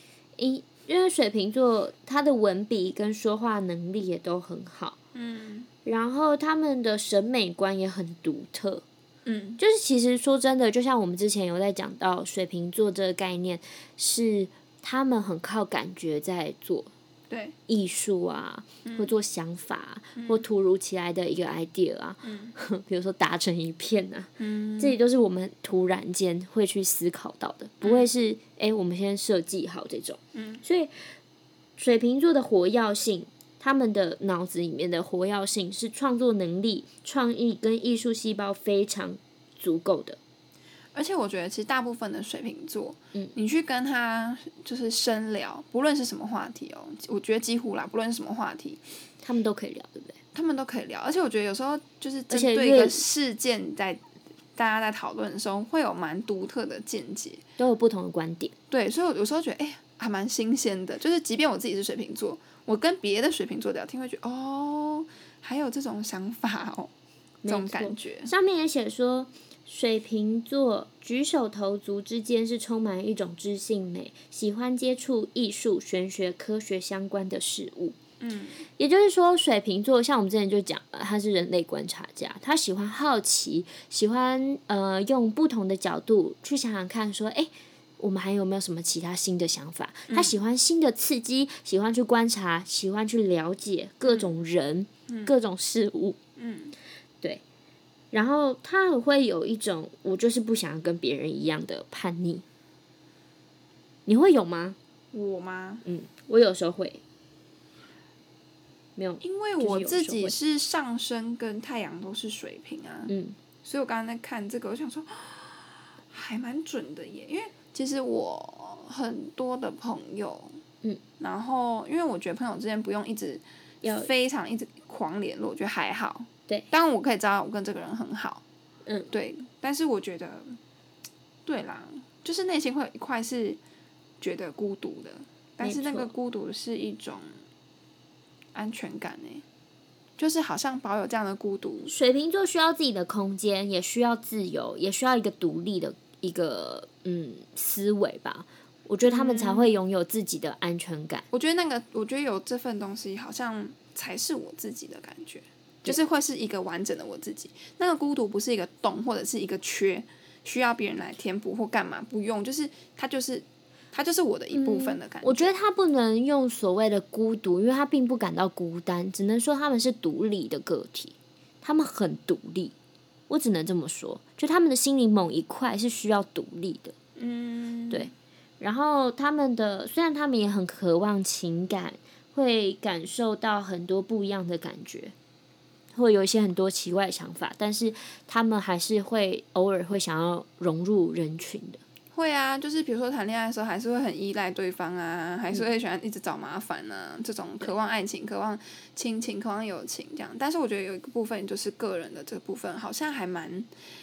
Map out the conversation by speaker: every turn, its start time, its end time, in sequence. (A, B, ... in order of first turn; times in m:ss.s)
0:00.4-0:05.0 A
0:05.2-0:05.7 B
0:05.8-0:08.8 A
0:09.3-0:09.6 B
0:09.6-0:16.9 A
0:17.3-0:17.6 B
0:17.7-0:31.0 A
0:18.8-0:19.1 B
0:20.2-0:20.4 B
0:22.2-0:22.6 B
0:24.4-0:25.0 B
0:27.8-0:28.1 B
0:30.4-0:30.6 B
0:31.8-0:40.2 A
0:41.0-0:48.8 B
0:49.2-0:50.2 A
0:50.3-0:54.0 B
0:52.3-0:53.0 A
0:54.6-0:57.4 B
0:57.6-0:58.5 A
0:58.7-1:06.9 B
1:07.4-1:18.0 A
1:07.5-1:08.3 B
1:18.2-1:18.7 B
1:18.8-1:36.2 A
1:30.1-1:30.4 B
1:34.1-1:34.3 B
1:36.4-1:36.8 B
1:38.1-1:42.4 A
1:44.1-1:44.8 A
1:45.1-1:45.8 B
1:45.8-1:47.0 A
1:49.0-1:50.4 A
1:49.2-1:53.1 B
1:53.1-1:53.4 A
1:53.6-2:00.6 B
2:01.2-2:08.4 B
2:03.8-2:04.1 A
2:08.9-2:09.1 A
2:09.1-2:10.6 B
2:11.5-2:13.6 B
2:14.2-2:17.3 B
2:15.6-2:16.1 A
2:18.6-2:19.4 B
2:20.2-2:21.9 B
2:21.9-2:31.2 A
2:29.0-2:29.7 B
2:31.3-2:45.5 B
2:44.5-2:52.7 A
2:53.3-2:56.9 A
2:57.2-2:58.1 B
2:57.9-3:05.1 A
3:05.9-3:11.8 A
3:12.1-3:23.7 B